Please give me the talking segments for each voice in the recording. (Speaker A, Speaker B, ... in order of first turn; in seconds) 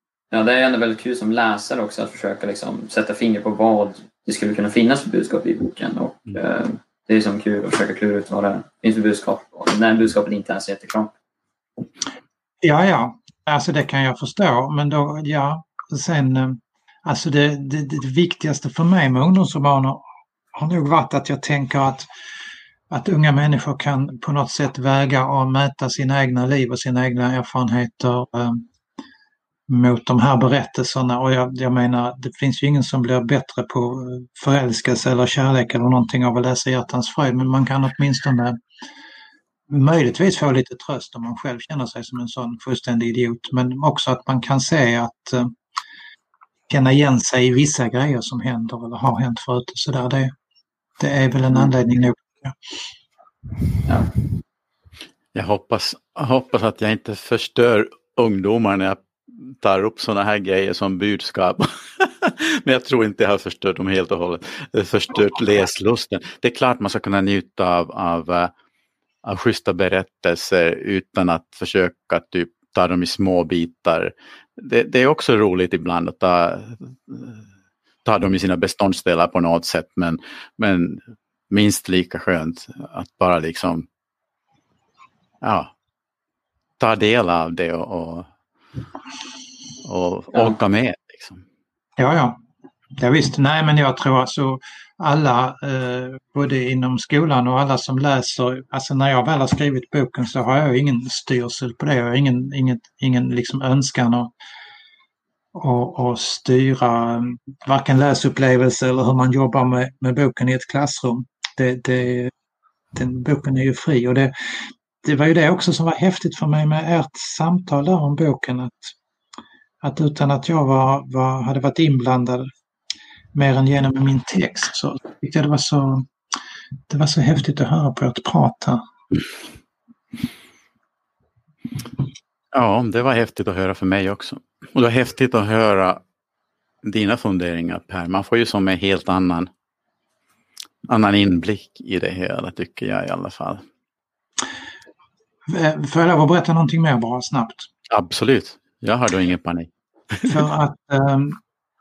Speaker A: 0.3-11.1, 53.9-54.1
Speaker B: 12.6-20.0, 20.6-22.1, 22.9-28.6, 29.7-38.6, 39.7-45.5, 46.7-50.3, 51.0-52.6, 92.0-92.4, 93.0-104.3, 105.5-112.3, 112.9-119.0, 119.8-122.5, 123.3-126.1, 126.9-128.8, 145.5-147.7, 150.2-151.4
Speaker C: 55.3-68.5, 69.2-77.4, 78.0-83.9, 85.4-85.7, 86.8-88.3, 89.8-91.4, 132.5-136.0, 136.8-139.5, 140.9-143.6, 147.9-150.3